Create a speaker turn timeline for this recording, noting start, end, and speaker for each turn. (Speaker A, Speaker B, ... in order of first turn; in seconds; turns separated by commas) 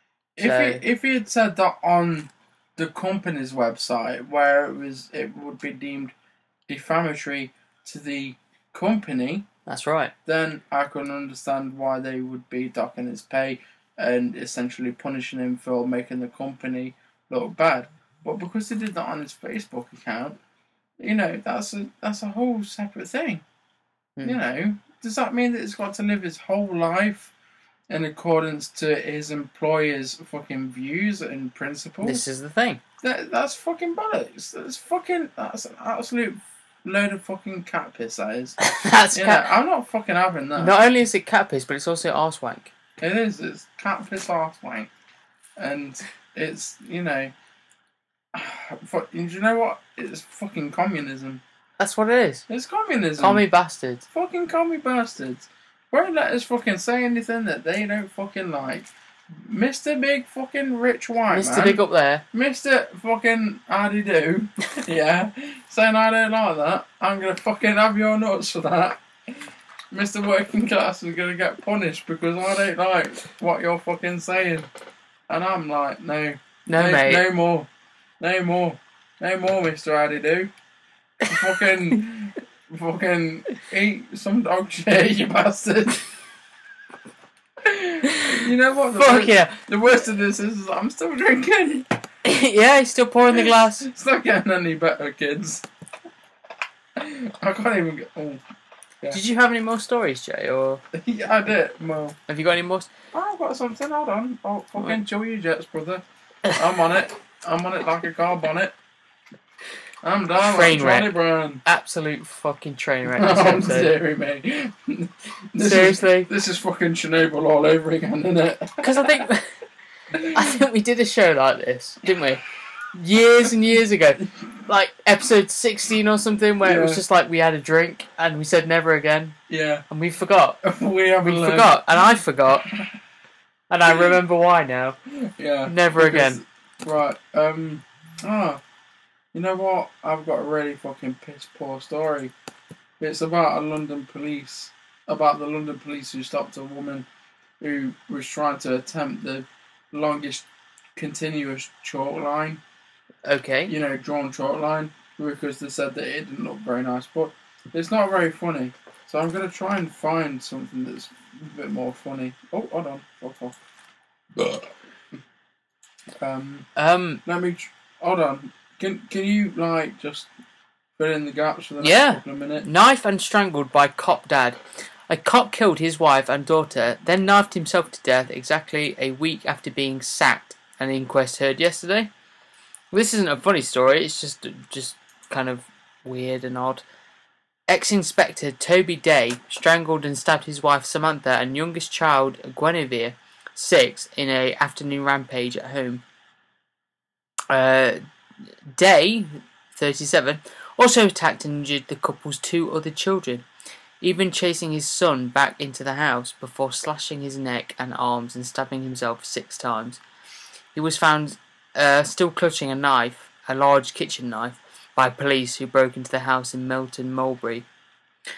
Speaker A: 0.4-6.1, Speaker B: 0.4-0.8, Speaker A: 6.7-9.4, Speaker B: 9.7-10.1, Speaker A: 10.2-20.4, Speaker A: 21.0-23.4, Speaker A: 24.2-27.3, Speaker A: 27.9-32.2, Speaker B: 32.0-32.8, Speaker A: 33.0-38.6, Speaker B: 38.6-39.5, Speaker A: 39.1-40.9, Speaker B: 40.6-42.7, Speaker A: 43.0-44.9, Speaker A: 45.6-47.3, Speaker A: 48.3-51.4, Speaker B: 51.8-52.4, Speaker A: 52.5-53.5, Speaker B: 53.2-54.0, Speaker A: 54.1-74.7, Speaker B: 61.3-62.2, Speaker A: 75.3-77.7, Speaker B: 76.7-77.2, Speaker A: 78.2-80.5, Speaker A: 81.2-86.1, Speaker A: 87.6-91.9, Speaker B: 88.1-88.4, Speaker B: 89.0-89.6, Speaker B: 92.2-93.8, Speaker A: 93.3-95.7, Speaker A: 97.0-98.4, Speaker B: 99.1-100.8, Speaker A: 100.9-102.2, Speaker B: 102.3-102.9, Speaker A: 103.1-108.7, Speaker A: 110.0-111.6, Speaker B: 110.4-111.1, Speaker B: 111.6-113.9, Speaker A: 113.0-119.2, Speaker B: 115.6-116.3, Speaker B: 118.8-119.6, Speaker A: 120.1-120.5, Speaker B: 120.2-122.4, Speaker B: 122.9-129.4, Speaker A: 126.6-127.0, Speaker A: 129.5-129.8, Speaker B: 129.9-130.6, Speaker A: 130.6-132.9, Speaker B: 131.2-132.7, Speaker B: 133.7-135.0, Speaker A: 133.8-134.2, Speaker A: 135.1-138.6, Speaker B: 135.7-136.4, Speaker A: 139.3-142.3, Speaker A: 143.0-147.1, Speaker A: 147.6-152.6, Speaker B: 153.2-153.7, Speaker A: 153.7-163.6, Speaker A: 164.3-164.7, Speaker A: 166.2-166.7, Speaker B: 166.8-167.2, Speaker A: 167.2-170.3, Speaker A: 171.0-172.7, Speaker B: 171.8-182.1, Speaker B: 182.9-186.8, Speaker B: 187.7-196.0, Speaker B: 197.5-198.0, Speaker B: 198.7-203.4, Speaker B: 204.0-210.0, Speaker B: 210.7-217.7